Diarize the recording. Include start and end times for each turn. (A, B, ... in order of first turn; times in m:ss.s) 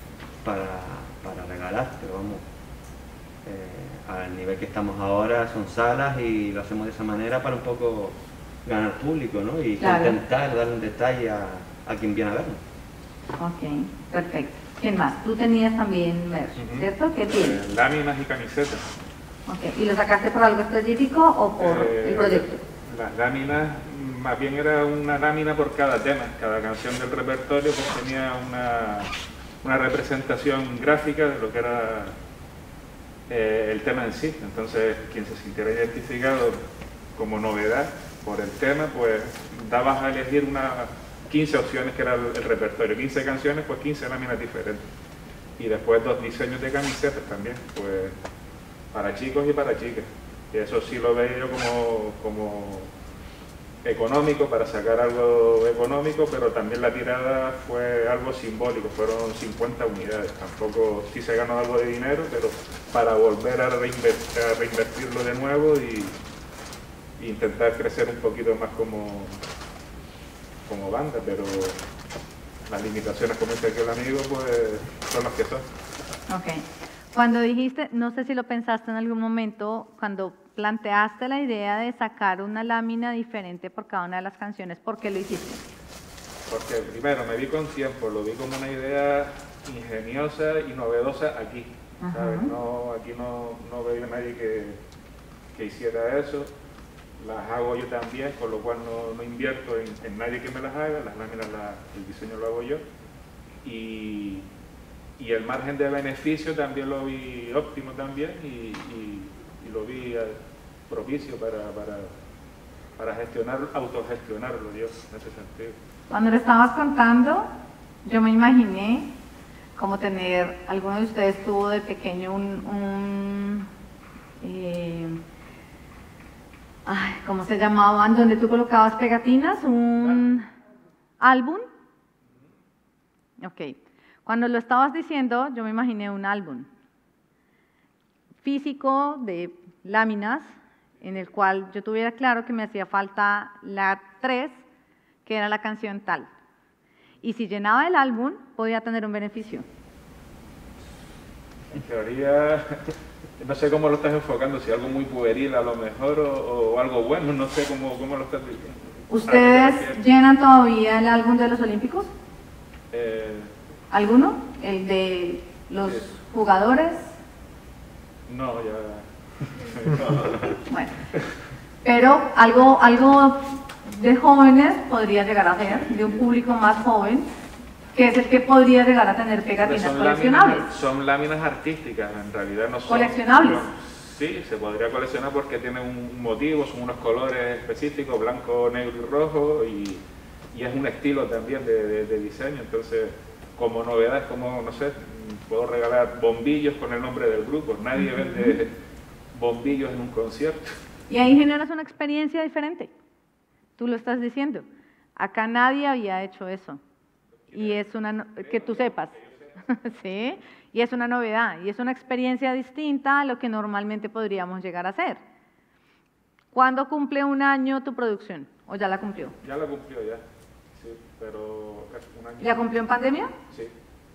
0:00.4-0:02.4 A
0:03.4-0:12.6 A
0:09.8-0:10.1 B
0:13.4-0:17.6 B
0:16.6-0:18.9 C
0:19.5-0:22.6 B
0:21.6-0:32.1 C
0:33.3-0:36.6 C
0:37.1-0:44.8 C
0:45.6-0:48.1 C
0:48.9-0:52.9 C
0:53.8-1:06.2 C
1:07.2-1:09.4 C
1:10.6-1:11.8 C
1:12.7-1:15.6 C
1:16.3-1:25.6 B
1:26.5-1:34.8 C
1:32.0-1:32.5 B
1:35.5-1:36.5 C
1:37.2-1:42.8 C
1:43.6-1:44.4 C
1:45.2-1:50.4 C
1:50.9-1:52.1 C
1:53.0-1:55.8 C
1:56.1-1:57.5 B
1:58.0-1:59.1 B
1:59.8-2:03.7 B
2:04.4-2:05.2 B
2:06.8-2:10.4 B
2:11.2-2:11.7 B
2:13.4-2:16.7 B
2:18.4-2:24.6 B
2:25.2-2:26.3 B
2:27.2-2:29.6 B
2:31.7-2:32.8 C
2:33.4-2:40.0 C
2:39.1-2:42.1 B
2:42.9-2:43.5 C
2:43.9-2:47.1 B
2:48.3-2:50.6 C
2:50.7-2:50.9 B
2:51.8-2:57.3 B
2:57.9-3:00.7 B
2:59.6-3:10.0 C
3:02.9-3:03.6 B
3:10.5-3:18.7 C
3:18.0-3:18.6 B
3:19.3-3:20.8 C
3:21.1-3:22.9 B
3:23.8-3:24.6 B
3:25.2-3:26.8 B
3:27.5-3:29.6 C
3:27.5-3:29.2 B
3:29.7-3:35.2 B
3:36.5-3:39.3 B
3:39.4-3:40.2 C
3:40.8-3:42.8 C
3:42.4-3:43.3 B